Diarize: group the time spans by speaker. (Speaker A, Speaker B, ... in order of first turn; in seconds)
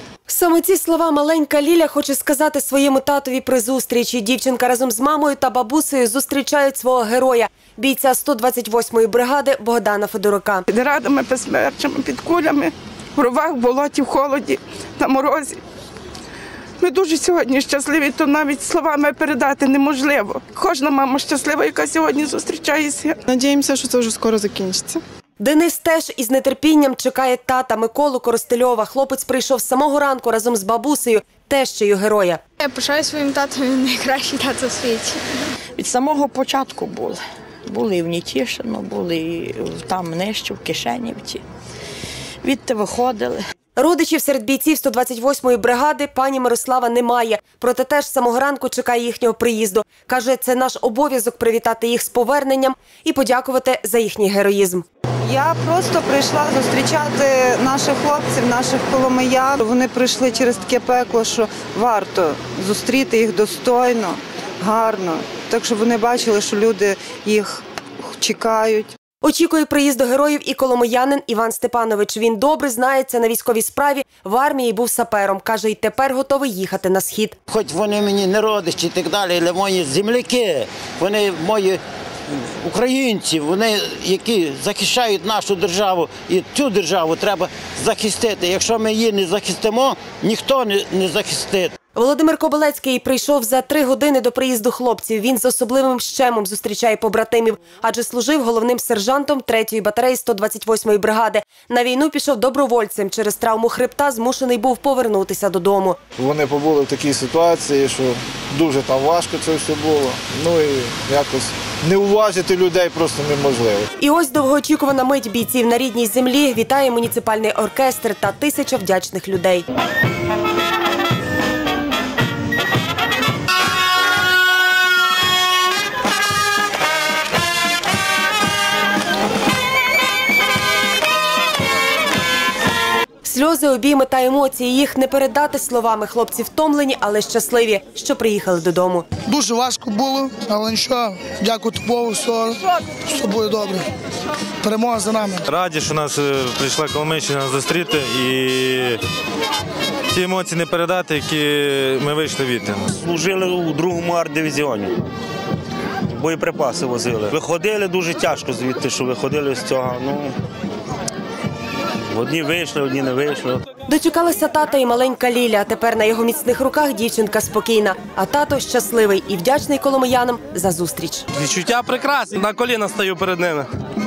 Speaker A: 0.3-10.7, 25.4-32.4, 43.8-54.9, 69.2-77.4, 92.0-106.0, 114.0-119.7, 133.2-139.1, 163.9-171.3
Speaker B: 10.7-15.6, 16.8-23.1
Speaker C: 23.3-25.0, 55.3-69.0
Speaker D: 32.6-35.2
Speaker E: 35.8-41.4, 42.4-43.4
Speaker F: 77.5-91.7
Speaker G: 106.2-113.9
Speaker H: 139.2-143.8, 144.6-145.4
Speaker I: 145.5-149.0, 150.1-152.9
Speaker J: 152.9-154.9, 156.1-160.4, 162.1-163.6
Speaker K: 171.3-173.7